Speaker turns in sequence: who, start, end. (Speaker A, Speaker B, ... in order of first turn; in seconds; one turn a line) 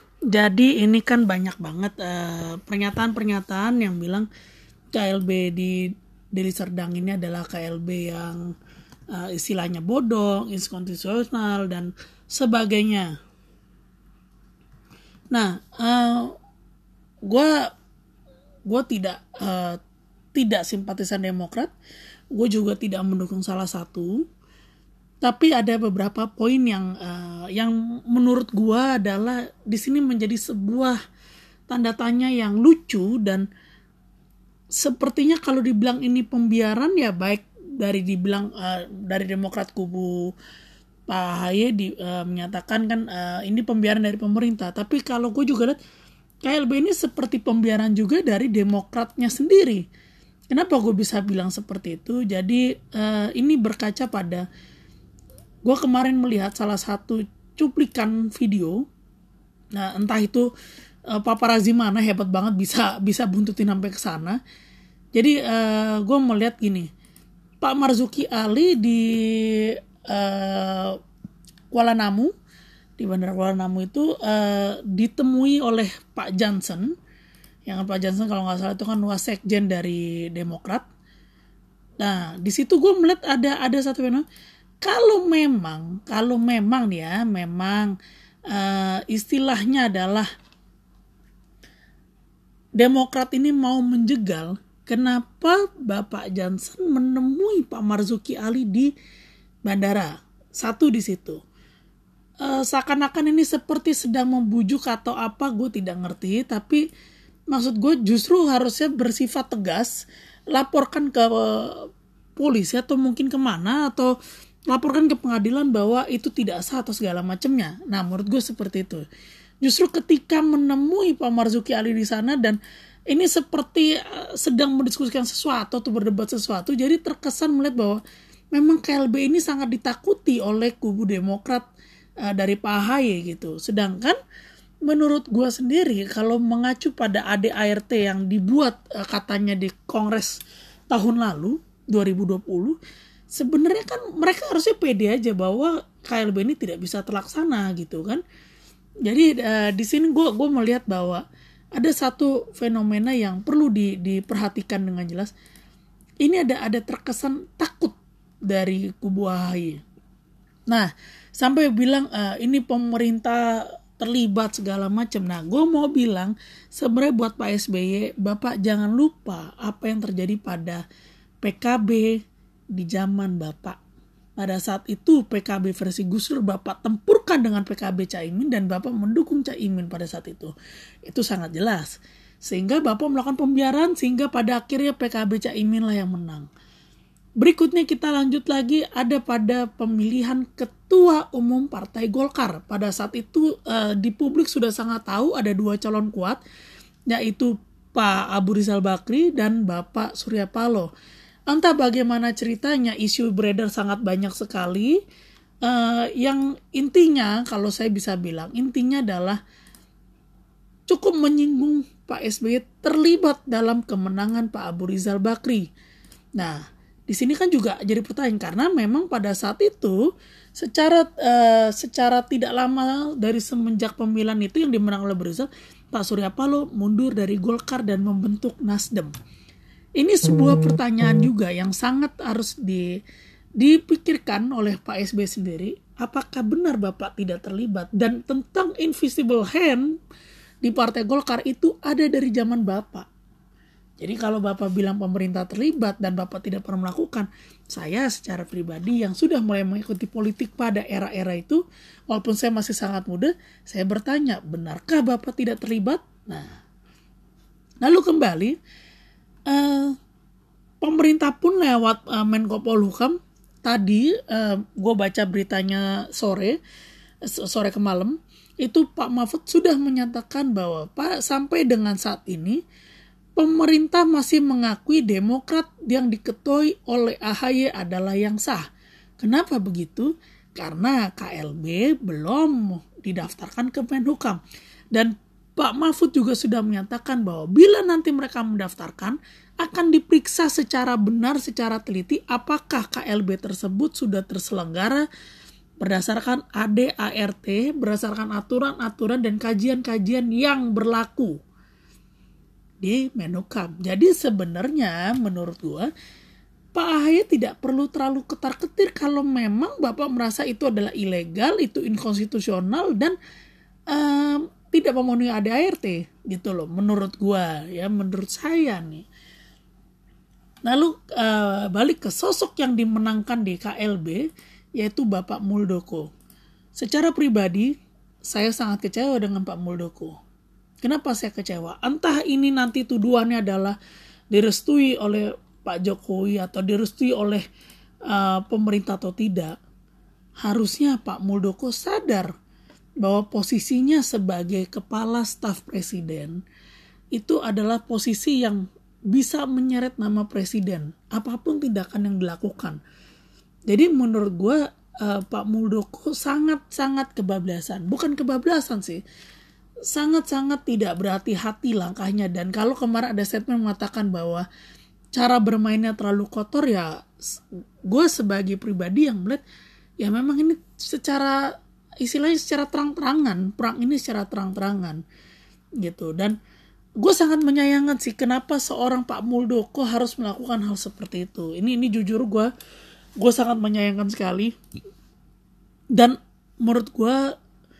Speaker A: 0.3-4.3
Speaker A: 4.9-8.5
Speaker A: 9.1-13.2
Speaker A: 15.3-16.4
Speaker A: 17.3-17.7
Speaker A: 18.6-19.8
Speaker A: 20.3-21.7
Speaker A: 22.3-24.2
Speaker A: 25.2-31.0
Speaker A: 31.7-33.5
Speaker A: 34.8-40.3
Speaker A: 41.1-45.8
Speaker A: 46.4-49.9
Speaker A: 50.5-54.4
Speaker A: 55.6-58.8
Speaker A: 59.7-60.5
Speaker A: 61.1-64.4
Speaker A: 65.1-66.9
Speaker A: 67.6-71.0
Speaker A: 71.7-72.3
Speaker A: 73.0-76.9
Speaker A: 77.7-80.8
Speaker A: 82.0-84.2
Speaker A: 84.8-87.9
Speaker A: 88.5-90.3
Speaker A: 92.8-98.9
Speaker A: 99.6-101.4
Speaker A: 102.4-106.8
Speaker A: 107.5-109.9
Speaker A: 110.5-114.1
Speaker A: 114.7-119.0
Speaker A: 119.6-122.6
Speaker A: 123.1-128.0
Speaker A: 128.5-131.7
Speaker A: 132.2-134.2
Speaker A: 134.8-142.8
Speaker A: 143.3-148.2
Speaker A: 149.0-151.2
Speaker A: 151.7-155.3
Speaker A: 156.2-157.9
Speaker A: 158.5-159.8
Speaker A: 160.7-170.8
Speaker A: 171.4-172.2
Speaker A: 172.7-173.8
Speaker A: 174.4-180.5
Speaker A: 181.1-186.5
Speaker A: 187.4-196.4
Speaker A: 197.1-200.9
Speaker A: 201.5-205.0
Speaker A: 205.6-209.4
Speaker A: 210.9-215.7
Speaker A: 216.4-220.0
Speaker A: 220.6-229.1
Speaker A: 230.0-233.0
Speaker A: 233.6-240.0
Speaker A: 240.6-243.1
Speaker A: 244.0-256.5
Speaker A: 257.8-258.6
Speaker A: 259.5-259.9
Speaker A: 260.8-266.6
Speaker A: 267.3-272.6
Speaker A: 273.4-278.6
Speaker A: 279.2-284.4
Speaker A: 284.9-295.1
Speaker A: 295.8-301.4
Speaker A: 302.8-305.9
Speaker A: 306.7-313.1
Speaker A: 313.9-319.0
Speaker A: 320.6-324.2
Speaker A: 324.8-326.1
Speaker A: 326.8-327.7
Speaker A: 328.3-330.1
Speaker A: 330.8-333.8
Speaker A: 334.3-337.4
Speaker A: 338.1-339.6
Speaker A: 340.4-342.3
Speaker A: 343.0-346.4
Speaker A: 347.1-352.8
Speaker A: 353.7-359.0
Speaker A: 359.9-364.4
Speaker A: 365.1-369.4
Speaker A: 370.0-375.0
Speaker A: 375.8-376.4
Speaker A: 377.0-382.5
Speaker A: 383.2-384.5
Speaker A: 385.9-387.2